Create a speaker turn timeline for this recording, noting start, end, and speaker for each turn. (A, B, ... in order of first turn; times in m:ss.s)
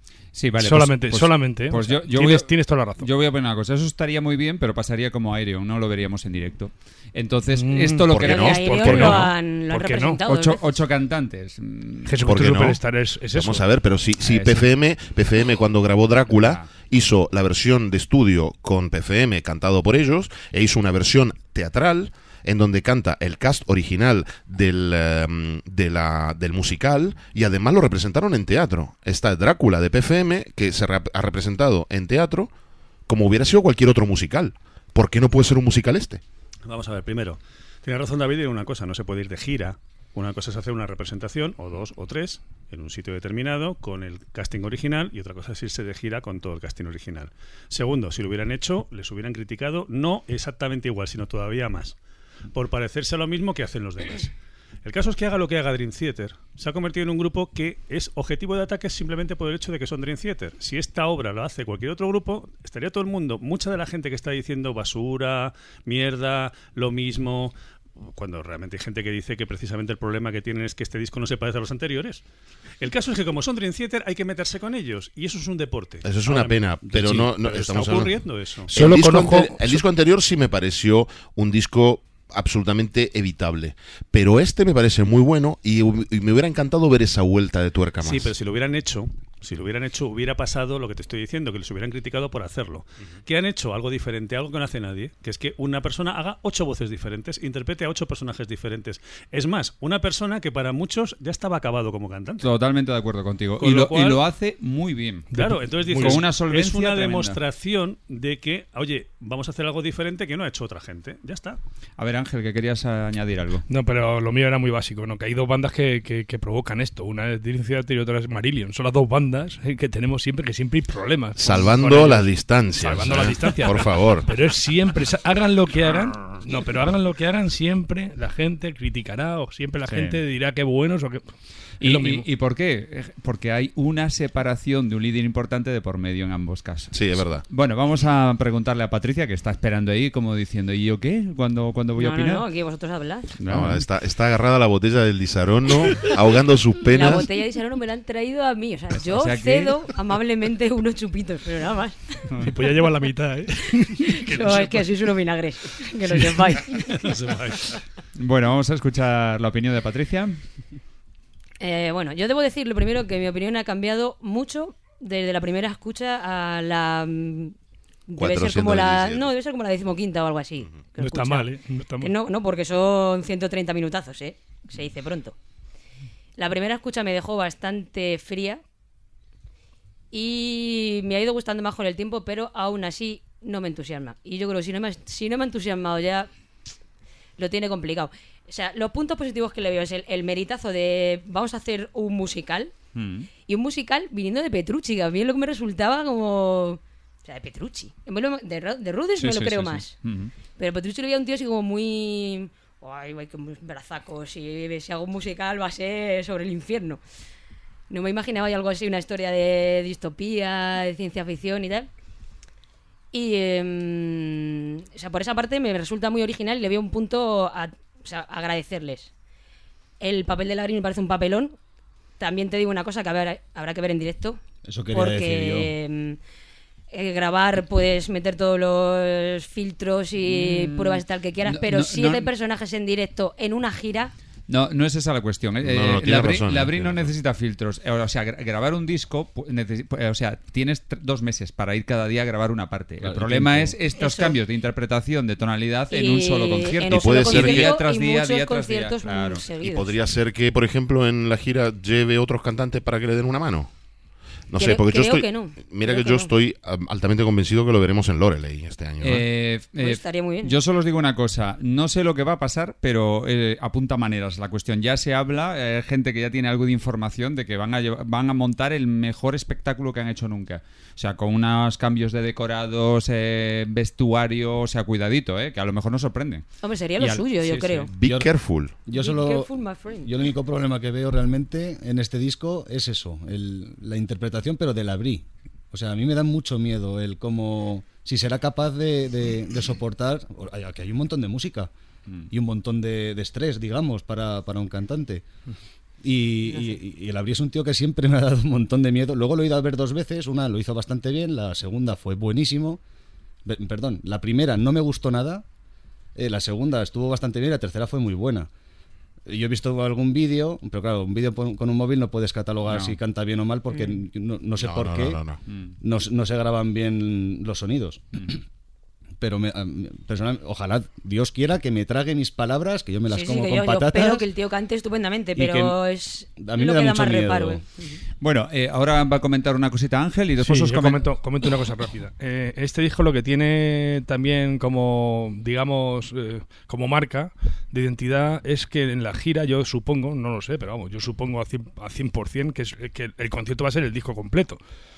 0:00.3-0:09.3 A
0:00.6-0:03.1 B
0:07.5-0:10.2 B
0:08.1-0:09.1 C
0:08.2-0:10.6 D
0:10.2-0:12.2 A
0:12.0-0:13.7 B
0:12.3-0:32.5 C
0:14.2-0:14.7 A
0:16.3-0:16.7 A
0:33.1-0:36.2 C
0:36.6-0:52.0 E
0:52.5-0:54.3 E
0:54.8-1:12.2 E
1:12.8-1:18.7 E
1:16.0-1:18.2 C
1:18.7-1:19.8 B
1:18.7-1:28.3 C
1:28.0-1:42.5 E
1:42.4-1:47.4 A
1:43.6-1:44.2 E
1:45.3-1:46.3 B
1:45.3-1:51.6 E
1:52.0-1:53.6 A
1:53.7-2:12.3 B
2:01.4-2:04.3 C
2:09.9-2:10.2 A
2:11.8-2:22.4 A
2:16.9-2:17.5 C
2:22.0-2:23.3 D
2:23.4-2:23.8 A
2:23.5-2:27.3 C
2:26.9-2:32.4 D
2:29.0-2:29.7 A
2:32.4-2:35.0 B
2:34.3-2:37.0 D
2:36.1-2:36.6 B
2:36.9-2:37.8 E
2:38.2-2:40.4 A
2:41.6-2:47.6 D
2:48.1-2:51.5 D
2:48.2-2:49.3 C
2:51.0-2:52.1 B
2:52.0-2:55.4 D
2:56.4-2:58.6 D
3:00.1-3:06.3 D
3:07.4-3:12.7 D
3:13.0-3:13.3 A
3:13.5-3:20.0 D
3:19.2-3:20.3 A
3:20.6-3:27.0 D
3:27.9-3:31.9 D
3:33.1-3:39.1 D
3:40.0-3:41.6 D
3:42.2-3:44.4 D
3:44.6-3:45.7 F
3:44.9-3:46.2 D
3:46.9-3:54.1 D
3:50.3-3:52.3 A
3:54.5-4:09.5 A
3:55.6-3:57.1 C
4:03.0-4:03.8 F
4:04.0-4:04.4 D
4:05.9-4:09.9 D
4:06.9-4:07.8 C
4:09.6-4:13.7 C
4:14.5-4:19.3 C
4:14.6-4:16.3 D
4:19.0-4:36.4 A
4:19.8-4:20.6 D
4:36.6-4:37.9 D
4:37.0-4:37.9 A
4:37.9-4:38.8 C
4:38.0-4:51.7 F
4:38.9-4:40.1 D
4:52.3-4:55.3 F
4:56.0-5:02.8 F
5:03.4-5:05.4 F
5:06.2-5:08.5 F
5:09.3-5:15.2 F
5:12.7-5:13.0 A
5:14.6-5:15.4 C
5:15.5-5:15.8 A
5:15.8-5:18.4 F
5:19.2-5:24.2 F
5:23.1-5:28.0 D
5:25.4-5:25.8 F
5:26.4-5:27.6 F
5:28.2-5:31.2 A
5:30.4-5:44.6 B